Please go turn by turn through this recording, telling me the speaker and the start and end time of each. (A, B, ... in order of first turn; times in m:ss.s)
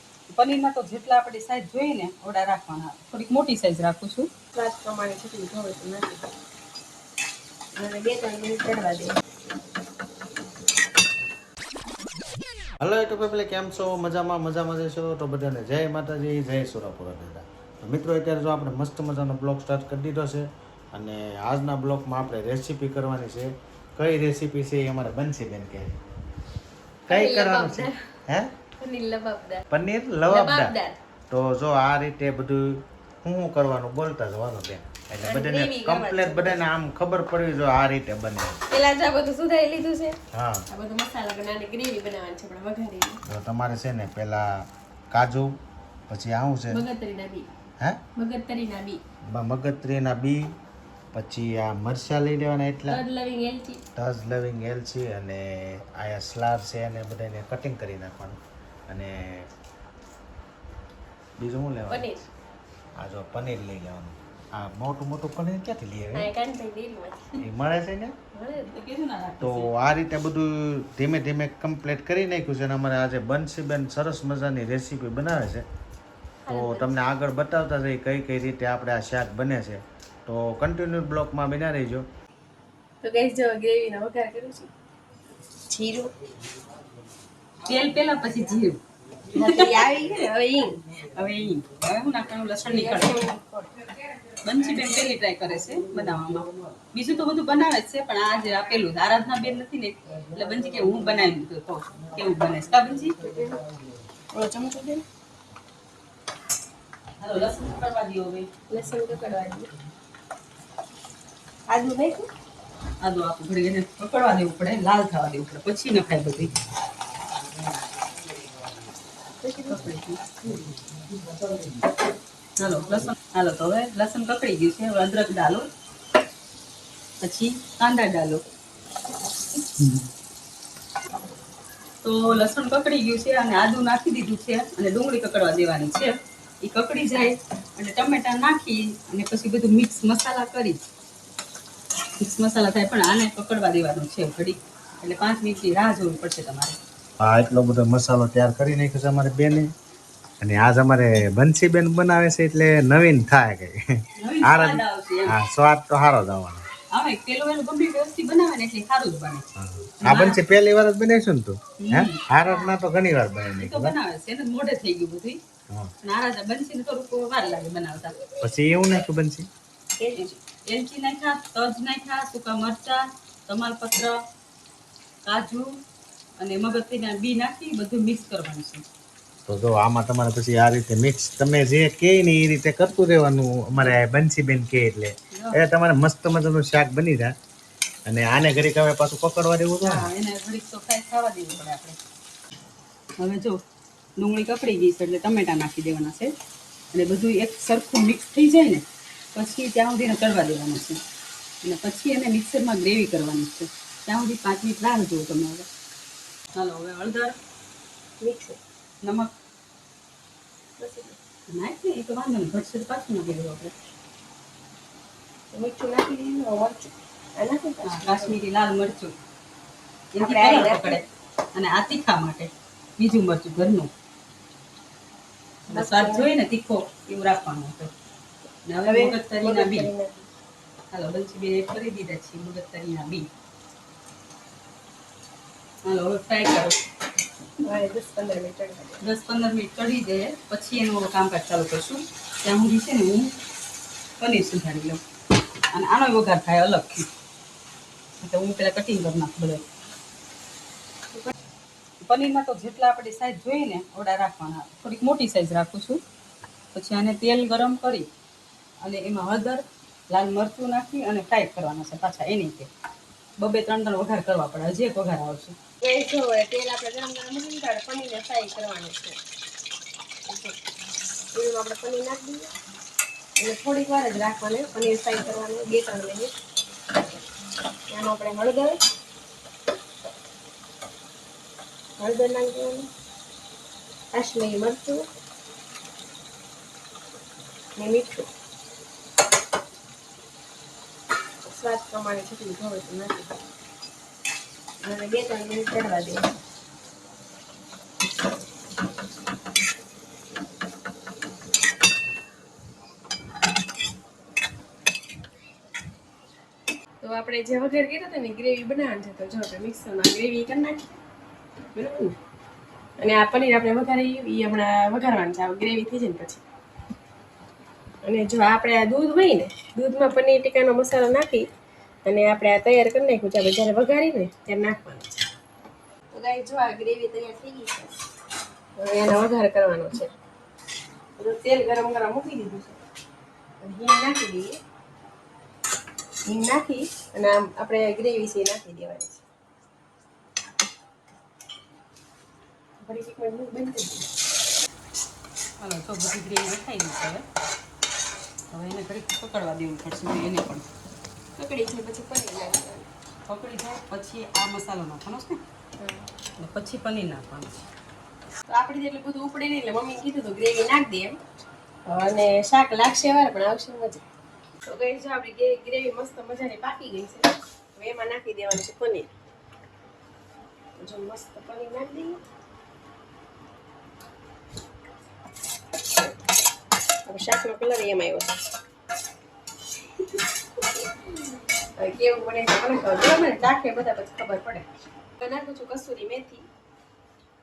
0:00.3-0:04.3 A
0:04.5-0:06.3 B
0:07.8-0:09.1 B
0:12.8-0:25.9 C
0:27.1-0:28.0 B
0:27.1-0:28.5 C
0:28.8-0:29.6 B
0:29.7-0:30.8 C
0:30.3-0:31.0 B
0:31.3-0:38.6 C
0:35.2-0:36.6 B
0:38.7-0:40.2 B
0:40.3-0:40.6 C
0:40.7-0:43.2 B
0:43.2-0:45.5 C
0:46.1-0:46.8 C
0:46.7-0:47.5 B
0:48.2-0:49.0 B
0:49.3-0:50.5 C
0:51.1-0:53.0 C
0:52.9-0:53.8 B
0:54.0-0:59.5 C
1:01.4-1:02.1 C
1:01.9-1:02.2 B
1:03.0-1:06.3 C
1:06.1-1:07.3 B
1:07.4-1:08.1 C
1:08.3-1:08.7 B
1:08.6-1:09.7 A
1:09.4-1:15.6 C
1:16.4-1:17.0 B
1:16.5-1:22.0 C
1:23.0-1:24.7 B
1:25.7-1:26.1 B
1:27.6-1:28.8 A
1:29.3-1:29.8 A
1:29.3-1:30.8 B
1:31.0-1:33.2 A
1:32.6-1:33.8 B
1:34.4-1:43.2 A
1:43.2-1:43.6 B
1:44.3-1:45.0 B
1:47.2-1:48.5 A
1:48.7-1:49.7 B
1:51.7-1:52.3 B
1:53.0-1:56.5 A
1:59.4-2:00.6 B
1:59.7-2:00.2 A
2:02.6-2:05.7 A
2:07.2-2:08.4 A
2:12.0-2:20.8 A
2:22.2-2:26.8 A
2:27.2-2:29.7 C
2:30.4-2:33.8 C
2:34.2-2:35.3 A
2:34.4-2:36.6 C
2:36.9-2:39.4 A
2:39.6-2:43.9 C
2:40.0-2:40.4 A
2:41.8-2:42.7 A
2:43.6-2:45.4 A
2:46.0-2:48.2 A
2:48.4-2:49.5 C
2:50.0-2:50.3 B
2:50.2-2:54.2 A
2:55.2-2:55.7 A
2:56.4-2:58.8 A
2:59.5-3:07.3 C
3:05.3-3:05.6 A
3:08.0-3:10.1 C
3:09.8-3:12.0 A
3:13.2-3:13.6 A
3:14.2-3:16.3 A
3:16.9-3:21.0 A
3:21.6-3:25.7 A
3:26.5-3:27.4 A
3:28.2-3:28.6 B
3:29.0-3:29.3 A
3:30.8-3:31.2 B
3:31.5-3:33.7 A
3:35.5-3:38.4 B
3:37.8-3:39.1 A
3:40.1-3:43.9 A
3:40.2-3:41.0 B
3:45.7-3:47.9 A
3:45.7-3:46.3 B
3:48.6-3:49.9 A
3:48.8-3:50.3 B
3:50.9-3:53.3 A
3:55.8-3:56.8 A
3:57.6-3:59.0 B
3:59.0-4:03.3 A
4:04.2-4:05.0 A
4:05.7-4:07.1 A
4:08.2-4:09.6 A
4:12.0-4:16.0 A
4:16.7-4:18.1 A
4:18.8-4:22.7 A
4:23.4-4:25.6 A
4:25.8-4:29.2 B
4:30.2-4:30.6 B
4:31.3-4:32.5 B
4:33.4-4:36.3 B
4:37.9-4:38.8 B
4:42.0-4:42.9 B
4:44.1-4:45.0 B
4:47.8-4:48.3 B
4:51.4-4:53.4 B
4:54.8-4:56.2 B
5:07.0-5:10.8 B
5:11.7-5:12.1 B
5:13.0-5:16.4 B
5:18.0-5:21.4 B
5:22.0-5:25.2 B
5:26.1-5:27.9 B
5:28.8-5:30.1 B
5:31.2-5:32.8 B
5:33.6-5:34.5 B
5:36.2-5:39.2 B
5:42.8-5:44.1 B
5:45.6-5:47.2 A
5:48.5-5:50.7 A
5:51.4-5:52.9 B
5:53.3-5:55.4 A
5:55.8-5:56.1 B
5:56.4-5:57.5 A
5:58.5-6:01.2 B
6:01.9-6:04.0 B
6:04.6-6:09.1 B
6:10.8-6:12.2 B
6:17.1-6:18.4 B
6:21.8-6:26.5 B